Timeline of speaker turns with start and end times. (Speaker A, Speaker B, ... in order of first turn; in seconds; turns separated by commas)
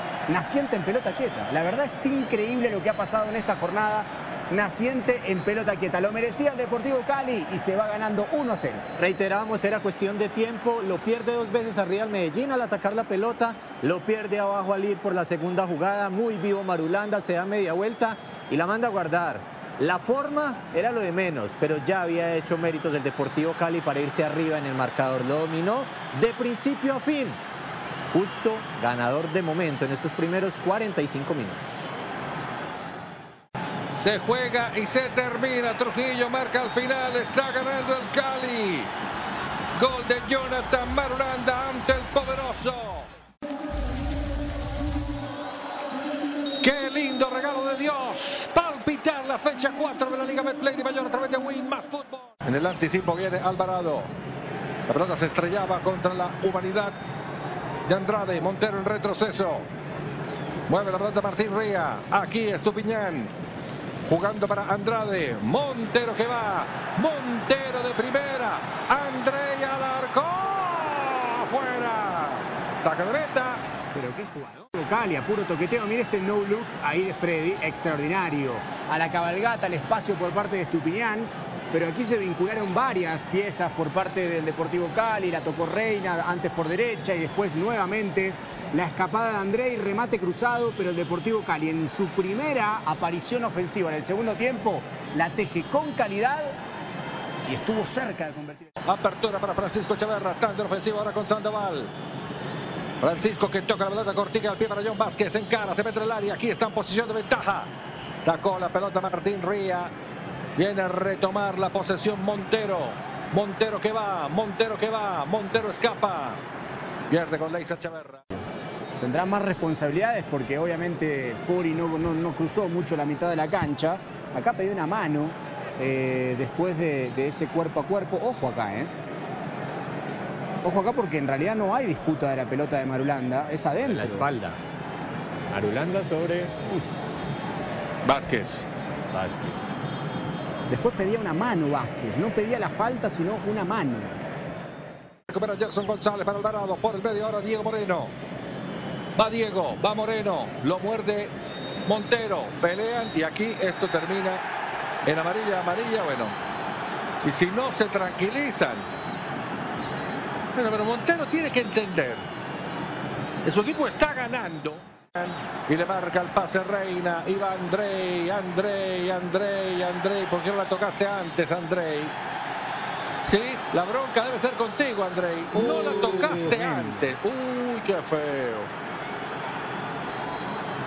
Speaker A: 0.3-8.9, Speaker B: 9.0-27.4, Speaker B: 28.1-31.9, Speaker C: 33.9-38.9, Speaker C: 39.8-43.1, Speaker C: 46.6-54.1, Speaker C: 54.9-57.0, Speaker C: 57.9-59.7, Speaker C: 60.7-63.3, Speaker C: 64.0-73.6, Speaker A: 73.9-96.6, Speaker A: 97.5-98.7, Speaker C: 98.8-101.9, Speaker C: 103.0-109.9, Speaker C: 110.6-116.4, Speaker C: 117.1-118.2, Speaker A: 119.0-128.9, Speaker A: 130.6-134.3, Speaker B: 133.8-134.6, Speaker B: 135.5-136.5, Speaker C: 138.0-138.7, Speaker B: 139.1-139.8, Speaker A: 140.7-144.1, Speaker C: 145.3-148.1, Speaker C: 149.2-154.4, Speaker C: 155.1-156.4, Speaker C: 157.2-158.9, Speaker C: 160.5-162.3, Speaker C: 163.4-172.2, Speaker C: 173.2-178.7, Speaker A: 175.5-177.1